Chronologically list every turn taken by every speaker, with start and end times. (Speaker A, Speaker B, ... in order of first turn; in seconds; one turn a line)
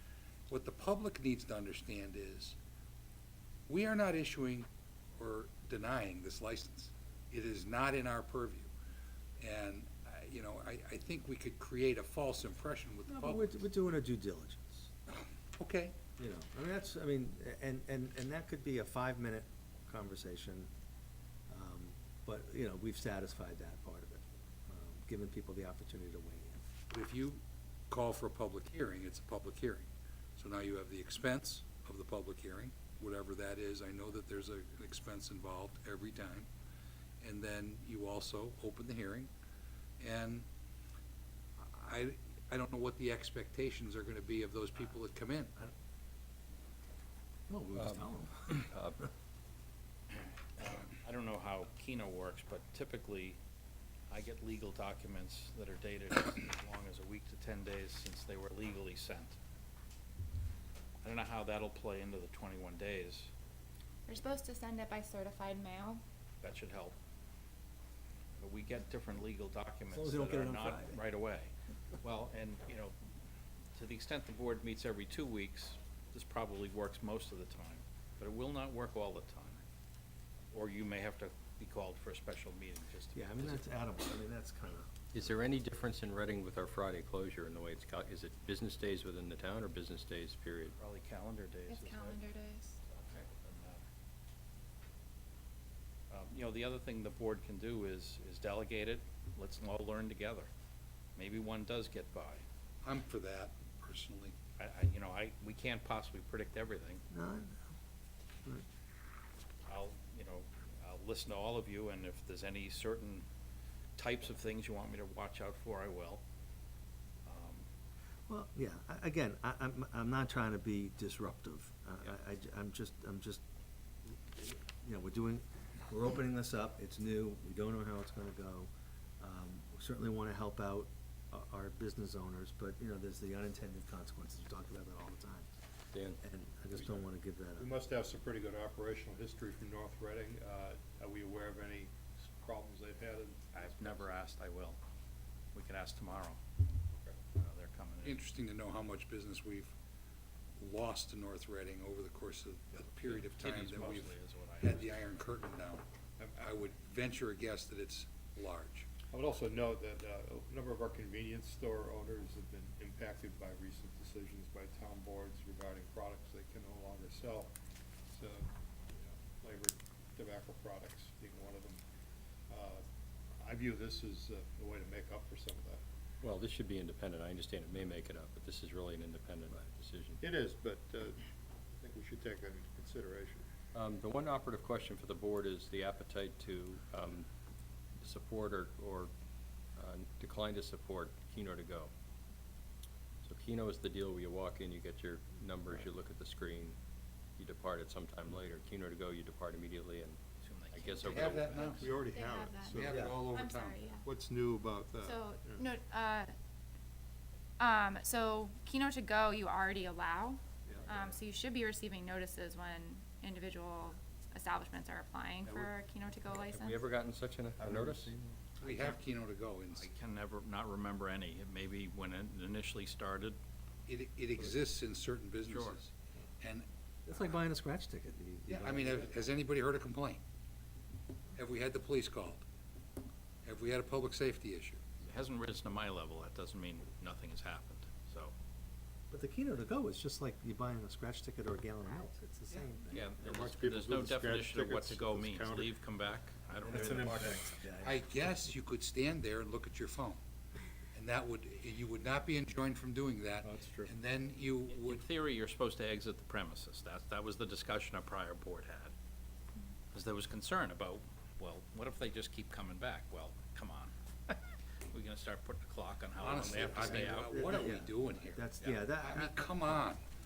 Speaker A: 0.5-2.6
Speaker A: 3.7-8.7
Speaker A: 9.4-13.6
Speaker B: 13.1-14.9
Speaker A: 15.6-15.9
Speaker B: 16.2-20.7
Speaker B: 21.5-26.6
Speaker A: 26.9-36.5
Speaker A: 37.2-39.3
Speaker A: 40.0-40.5
Speaker A: 41.6-45.5
Speaker B: 47.5-48.7
Speaker C: 47.8-49.0
Speaker D: 50.1-53.4
Speaker D: 54.1-59.4
Speaker D: 61.0-63.3
Speaker E: 64.1-66.0
Speaker D: 66.4-67.0
Speaker D: 68.4-72.9
Speaker B: 69.9-71.0
Speaker D: 73.7-79.6
Speaker D: 80.5-83.7
Speaker B: 83.1-84.9
Speaker C: 85.1-90.8
Speaker D: 90.8-92.2
Speaker E: 91.7-92.8
Speaker D: 92.8-93.8
Speaker D: 96.1-100.5
Speaker D: 101.2-102.4
Speaker A: 102.8-104.3
Speaker D: 104.6-107.0
Speaker B: 107.1-107.6
Speaker D: 109.7-113.2
Speaker D: 114.0-116.2
Speaker D: 117.2-117.7
Speaker B: 118.3-123.4
Speaker B: 124.1-135.5
Speaker C: 135.9-136.2
Speaker B: 136.2-137.7
Speaker F: 136.7-137.0
Speaker F: 137.6-144.2
Speaker D: 143.5-144.8
Speaker D: 145.5-146.4
Speaker D: 147.3-148.2
Speaker A: 148.0-149.7
Speaker A: 150.6-155.8
Speaker D: 153.1-155.1
Speaker A: 156.4-158.9
Speaker F: 159.1-167.5
Speaker F: 168.1-171.8
Speaker F: 172.5-172.8
Speaker F: 173.4-175.8
Speaker C: 176.2-180.2
Speaker F: 180.2-183.4
Speaker C: 183.7-187.3
Speaker C: 188.0-189.1
Speaker C: 189.8-191.9
Speaker C: 193.2-196.8
Speaker C: 197.4-200.2
Speaker D: 200.4-202.1
Speaker C: 200.7-201.8
Speaker A: 201.0-201.9
Speaker F: 201.8-203.1
Speaker E: 202.1-204.1
Speaker A: 202.7-203.8
Speaker B: 202.9-203.2
Speaker F: 204.0-205.6
Speaker E: 205.0-206.3
Speaker E: 207.6-216.8
Speaker C: 216.2-218.1
Speaker F: 217.6-218.3
Speaker A: 218.6-219.9
Speaker D: 219.7-223.4
Speaker A: 223.9-226.7
Speaker D: 225.4-225.8
Speaker B: 227.1-229.2
Speaker A: 228.5-230.2
Speaker A: 231.3-232.4
Speaker A: 233.4-234.8
Speaker D: 235.0-238.3
Speaker B: 239.1-243.2
Speaker D: 242.9-247.4
Speaker F: 243.2-245.7
Speaker B: 246.6-248.3
Speaker A: 247.8-250.2
Speaker A: 250.9-255.0
Speaker F: 253.4-253.9
Speaker D: 254.8-258.9
Speaker D: 259.9-267.7
Speaker A: 266.1-268.4
Speaker B: 266.7-269.8
Speaker D: 268.6-268.8
Speaker A: 269.0-270.0